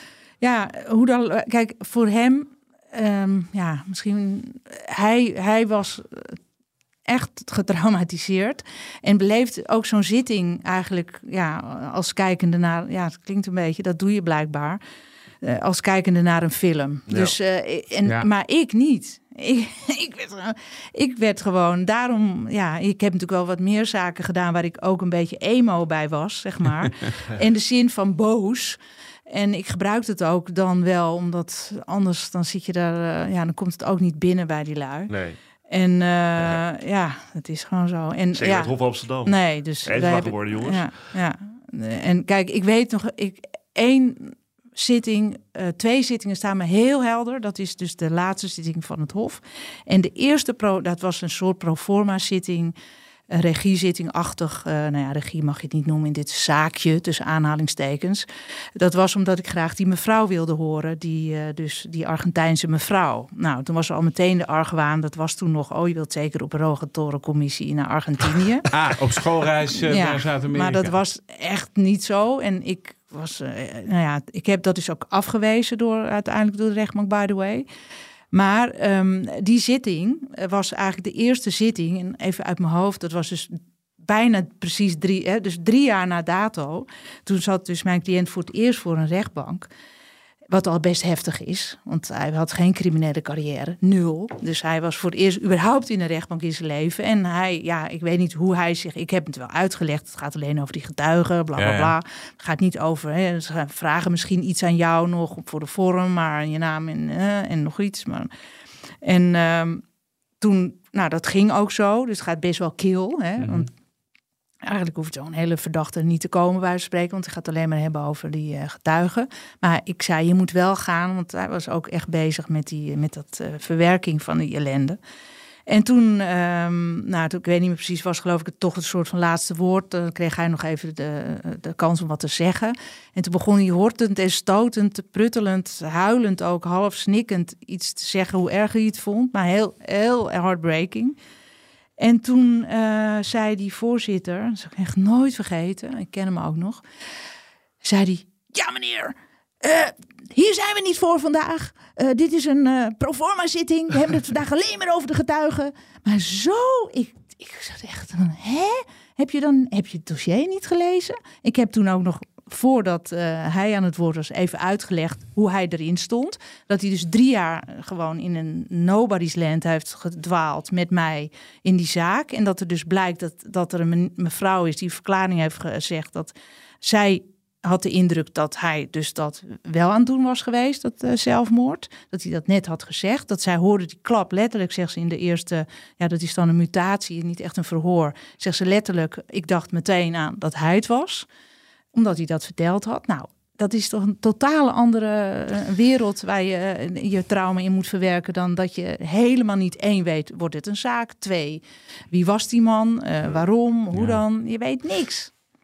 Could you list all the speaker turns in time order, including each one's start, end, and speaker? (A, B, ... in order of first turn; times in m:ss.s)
0:00.4-0:06.4 A
0:07.1-0:14.8 A
0:15.4-0:35.1 A
0:17.1-0:17.4 B
0:35.1-0:35.4 B
0:35.7-0:52.8 A
0:38.4-0:40.9 B
0:53.3-1:08.7 A
1:08.7-1:11.0 C
1:09.8-1:17.7 A
1:18.3-1:29.7 A
1:30.5-1:48.3 A
1:41.6-1:42.0 C
1:49.0-1:49.8 A
1:50.4-1:53.7 A
1:53.4-1:53.7 C
1:54.6-2:05.0 A
2:05.7-2:21.2 A
2:22.0-2:26.8 A
2:27.8-3:11.3 A
3:11.9-3:25.3 A
3:23.9-3:24.2 C